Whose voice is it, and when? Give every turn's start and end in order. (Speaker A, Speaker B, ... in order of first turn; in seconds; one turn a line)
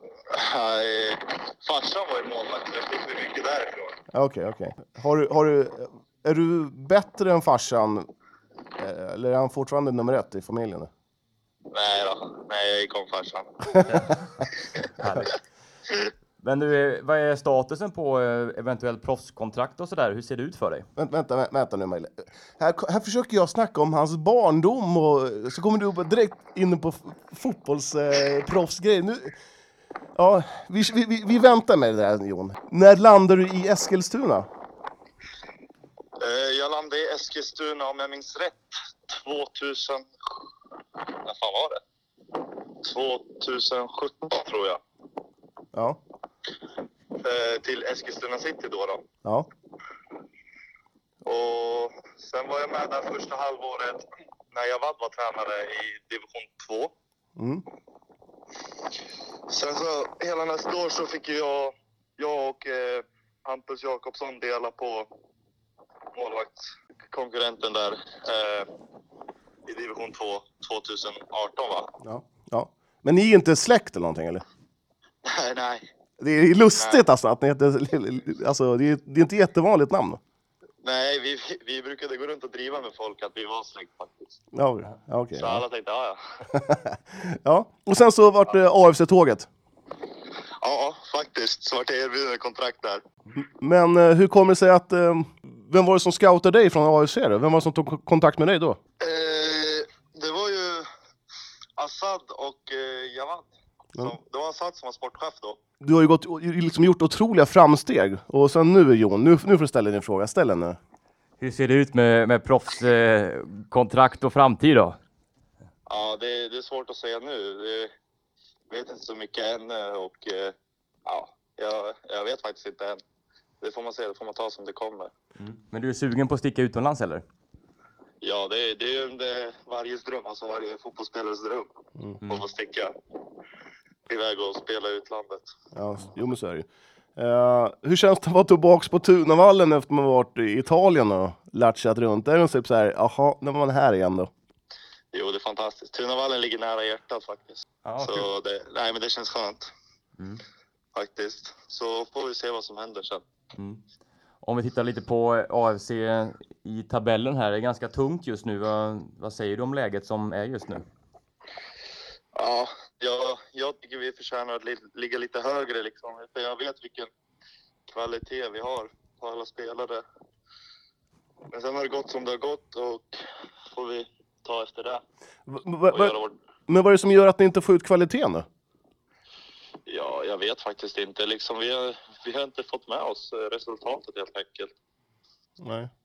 Speaker A: 0.3-4.0
Speaker B: 4.1-8.1
Speaker B: 8.8-10.9
Speaker A: 11.7-14.1
Speaker C: 15.0-15.3
Speaker C: 16.4-20.9
Speaker B: 21.0-29.4
Speaker B: 30.1-34.5
Speaker A: 36.2-40.1
Speaker A: 41.0-41.8
Speaker A: 42.7-44.8
Speaker B: 45.7-46.0
Speaker A: 47.2-49.0
Speaker A: 51.2-56.9
Speaker B: 57.4-57.6
Speaker A: 59.5-65.1
Speaker A: 66.1-68.7
Speaker A: 69.7-71.9
Speaker B: 72.0-74.4
Speaker A: 75.2-75.8
Speaker B: 76.2-80.2
Speaker A: 80.8-84.4
Speaker B: 84.5-85.6
Speaker A: 85.4-86.2
Speaker B: 86.5-89.5
Speaker A: 90.6-93.0
Speaker B: 93.3-98.8
Speaker A: 99.0-100.9
Speaker A: 101.8-105.6
Speaker B: 105.8-110.8
Speaker C: 111.4-115.0
Speaker A: 115.9-117.9
Speaker A: 118.7-120.5
Speaker A: 121.0-123.0
Speaker A: 123.6-125.1
Speaker C: 125.4-127.2
Speaker A: 128.2-131.7
Speaker A: 132.2-132.9
Speaker A: 134.1-135.5
Speaker B: 135.7-144.3
Speaker A: 145.1-149.7
Speaker C: 147.8-148.3
Speaker A: 150.9-153.2
Speaker C: 153.5-153.8
Speaker C: 154.4-160.8
Speaker A: 162.3-167.1
Speaker A: 167.9-170.0
Speaker A: 171.5-173.2
Speaker A: 173.7-175.0
Speaker B: 175.5-176.2
Speaker A: 175.9-176.3
Speaker B: 176.7-178.4
Speaker A: 179.9-184.7
Speaker B: 185.6-185.9